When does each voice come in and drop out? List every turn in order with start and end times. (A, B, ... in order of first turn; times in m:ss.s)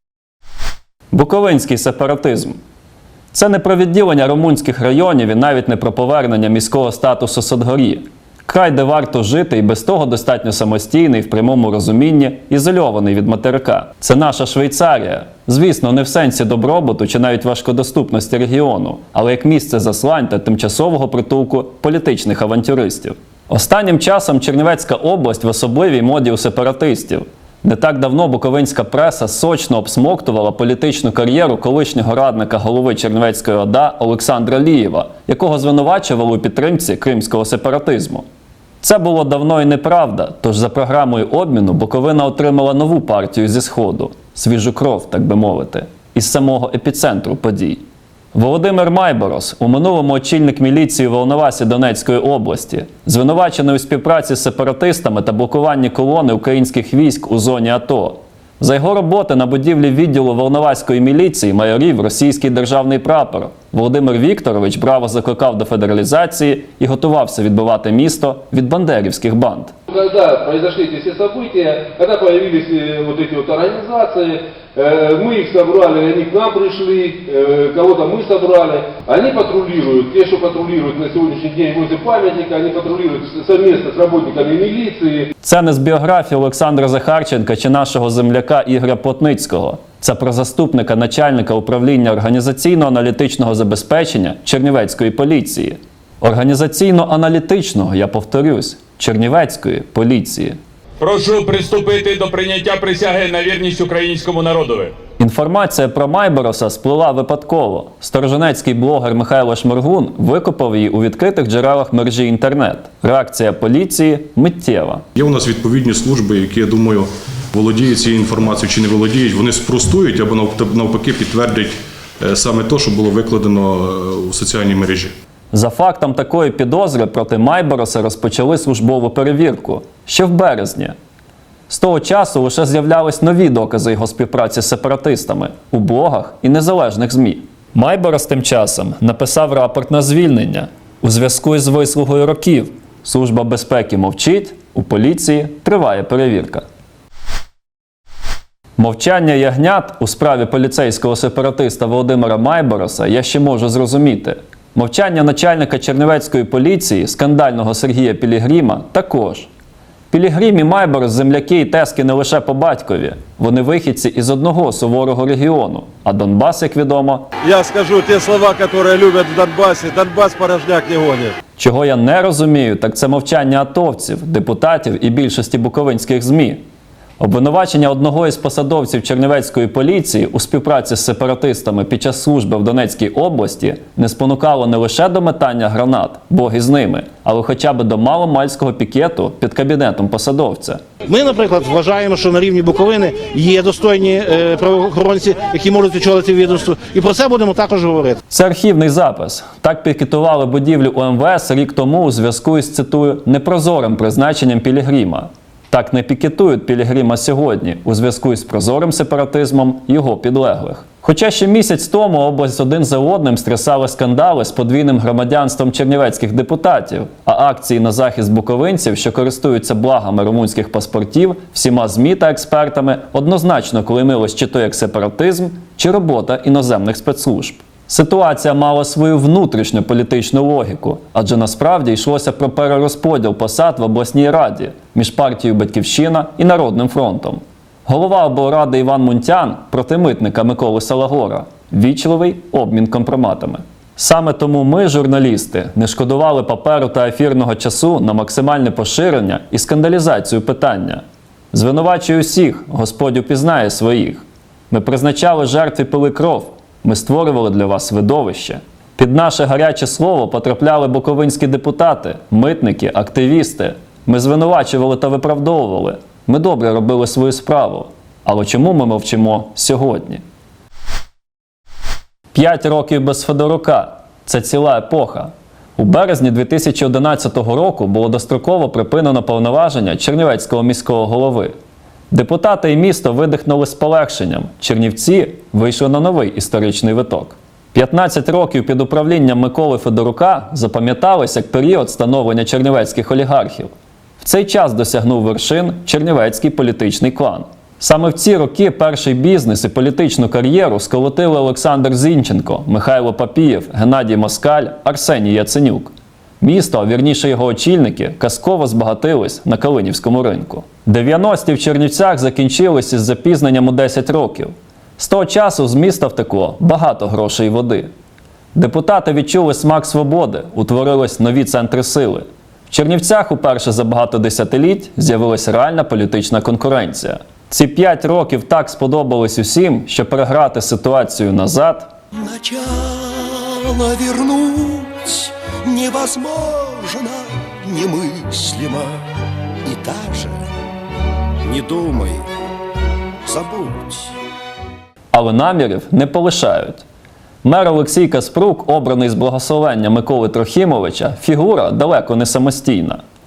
0:01.1-0:02.6 A
0:03.3-0:38.2 A
0:38.8-0:47.8 A
0:48.3-1:09.7 A
1:09.9-1:25.3 B
1:25.4-1:40.6 A
1:41.0-1:44.9 C
1:45.2-1:55.0 A
1:55.2-2:05.1 D
2:05.5-2:10.9 A
2:11.7-2:26.6 A
2:28.8-2:39.5 A
2:40.1-2:47.2 A
2:47.4-2:51.0 E
2:51.6-2:56.6 A
2:57.2-3:10.8 A
3:11.1-3:18.2 F
3:18.3-4:30.2 A
4:32.3-4:41.5 A
4:42.1-5:17.9 A
5:18.5-5:31.9 A
5:32.2-5:39.0 G
5:39.6-5:40.5 G
5:41.4-5:42.2 G
5:43.2-5:44.1 G
5:45.1-5:46.8 A
5:47.4-5:53.0 A